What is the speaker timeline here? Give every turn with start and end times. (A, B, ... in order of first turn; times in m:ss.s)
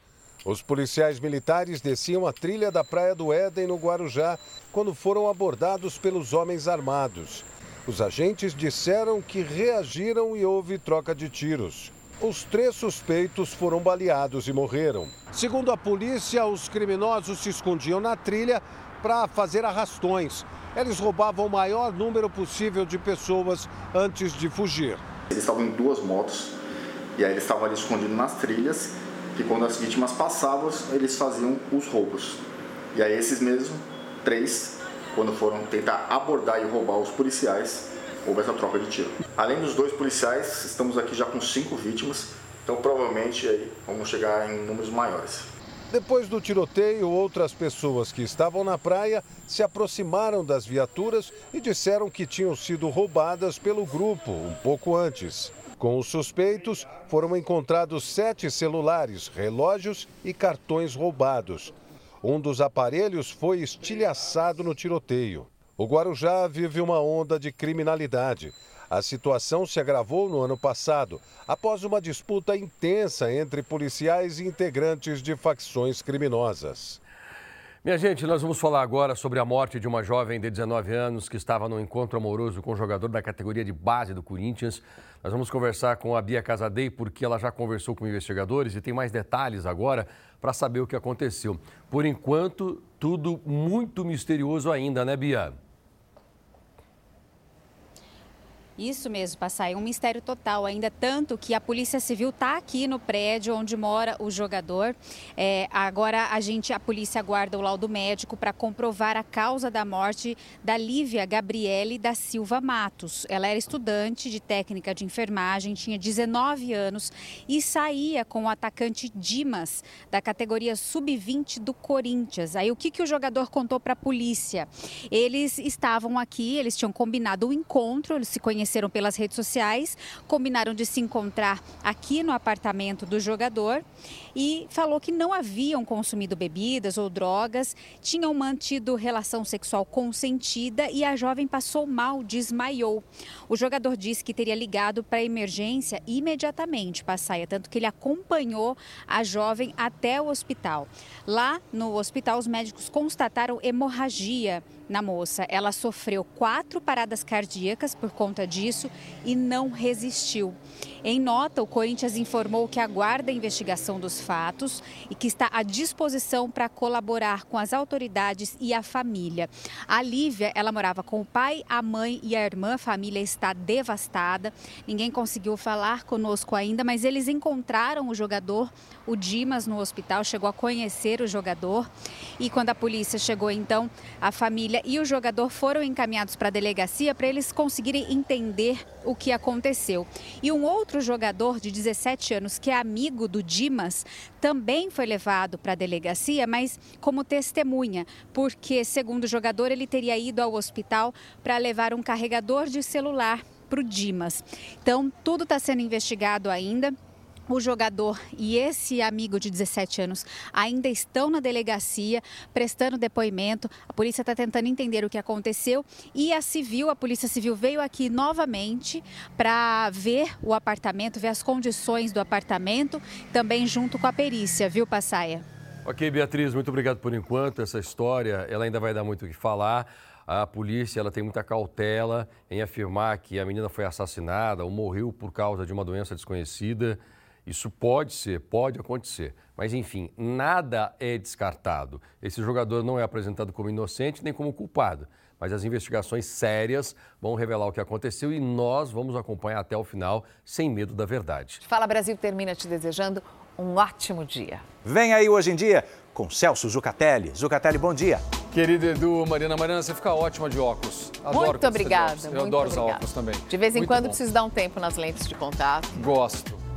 0:00.4-0:25.0 A
0:25.3-0:26.5 B
0:27.2-0:32.4 B
0:32.9-0:45.5 B
0:45.9-1:17.0 A
1:17.8-1:35.6 C
1:38.8-2:13.8 D
2:14.3-3:27.0 D
3:27.5-3:45.4 D
3:45.8-4:11.6 C
4:11.6-4:14.6 E
4:14.8-4:18.3 F
4:18.5-4:24.2 G
4:21.3-4:26.0 E
4:25.9-4:26.6 G